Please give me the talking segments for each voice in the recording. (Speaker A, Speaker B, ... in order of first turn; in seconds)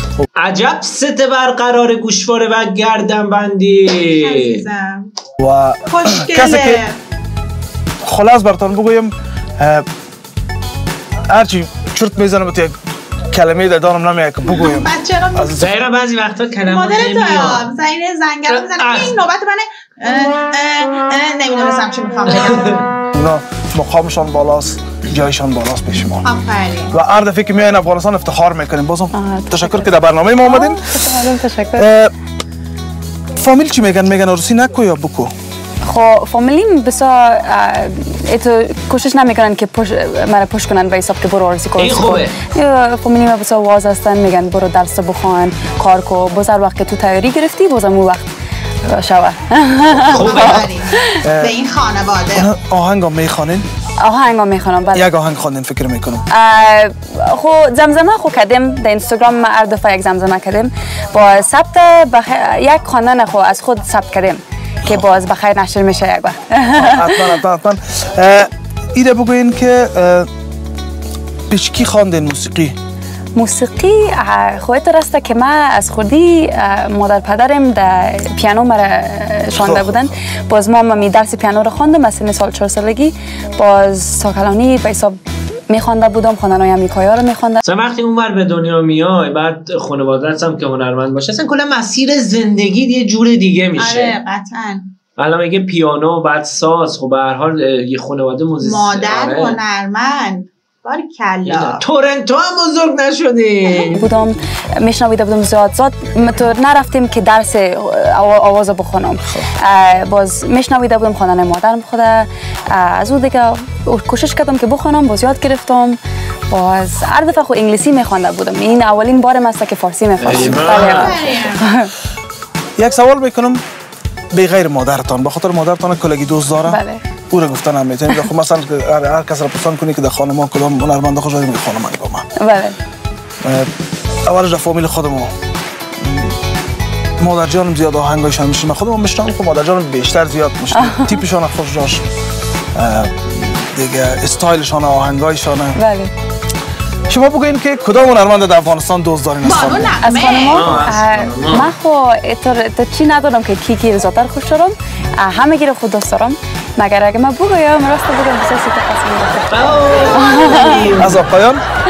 Speaker A: 0.4-4.6, 15.6-17.7, 18.5-19.1, 22.3-22.8, 41.8-42.4, 50.0-50.7, 87.6-94.2, 95.2-99.6, 101.4-104.1, 120.2-121.3, 150.5-151.7, 159.5-161.2
Speaker B: 4.2-5.1, 5.9-7.0, 14.5-15.6, 16.6-22.9, 26.2-26.9, 50.1-52.5, 93.8-94.9, 98.6-101.8, 120.4-121.6, 149.4-150.9, 160.4-161.0
Speaker C: 5.4-6.8, 8.0-9.8, 11.3-12.7, 13.3-15.7, 23.1-26.3, 26.9-30.9, 31.8-32.1, 33.4-35.3, 51.2-51.5, 52.3-53.6, 54.9-56.2, 66.7-70.3, 71.5-72.8, 79.6-80.1, 122.8-123.6, 124.3-126.8, 127.3-132.2, 133.4-133.7, 134.2-135.3, 136.0-136.3, 137.2-142.0, 142.7-145.8, 147.1-149.9, 161.0-161.6
Speaker D: 29.1-29.9, 30.4-31.9, 35.8-48.3, 48.8-51.2, 54.0-55.1, 56.3-67.4, 73.3-87.6, 103.9-116.0, 116.5-121.9, 126.7-127.0, 132.4-132.8, 140.7-141.2, 145.8-146.1, 150.0-161.0